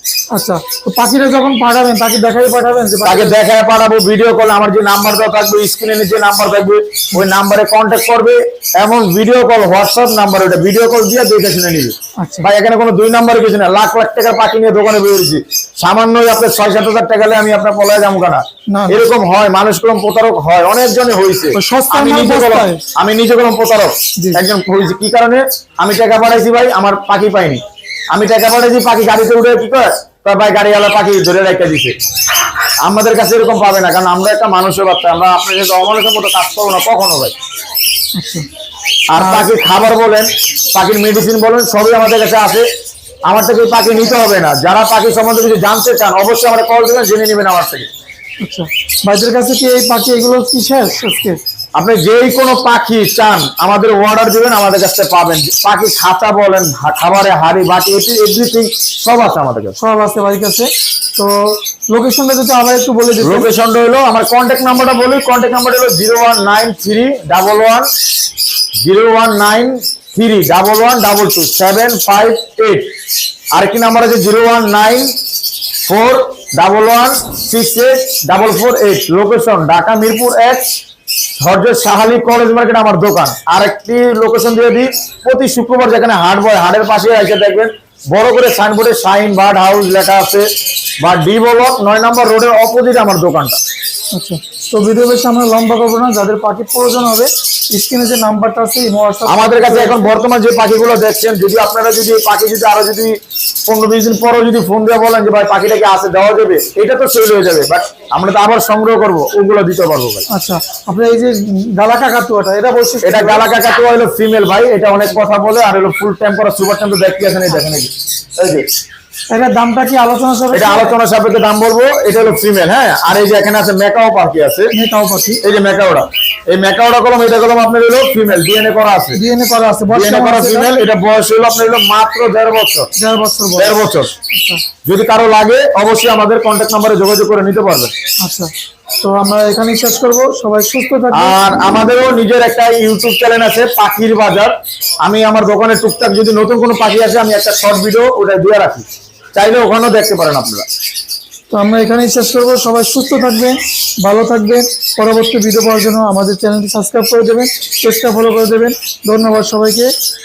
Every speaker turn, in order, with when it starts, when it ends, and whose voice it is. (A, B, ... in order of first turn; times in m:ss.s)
0:00.3-0:03.4 A
0:03.0-0:27.6 B
0:12.2-0:12.5 A
0:18.7-0:19.0 A
0:21.5-0:22.8 A
0:28.1-0:32.0 B
0:32.8-0:37.3 B
0:38.2-0:38.5 A
0:39.1-0:42.6 B
0:39.2-0:39.5 A
0:43.3-0:47.9 B
0:48.4-0:51.4 A
0:51.8-0:59.8 B
0:59.8-1:03.5 A
1:03.2-1:07.9 B
1:08.8-1:12.9 B
1:13.5-1:15.2 B
1:15.8-1:20.7 B
1:21.4-1:30.4 B
1:31.0-1:33.6 B
1:34.1-1:40.1 A
1:39.2-1:50.2 B
1:50.3-1:53.4 A
1:53.0-1:58.6 B
1:59.3-2:01.0 A
2:00.5-2:04.7 B
2:04.7-2:05.4 A
2:05.4-2:09.2 B
2:09.1-2:10.7 A
2:09.9-2:12.9 B
2:13.0-2:13.8 A
2:13.6-2:14.1 B
2:14.3-2:14.6 A
2:14.8-2:17.9 B
2:18.2-2:18.5 A
2:19.0-2:21.4 A
2:21.1-2:24.5 B
2:25.0-2:30.6 B
2:31.5-2:39.9 A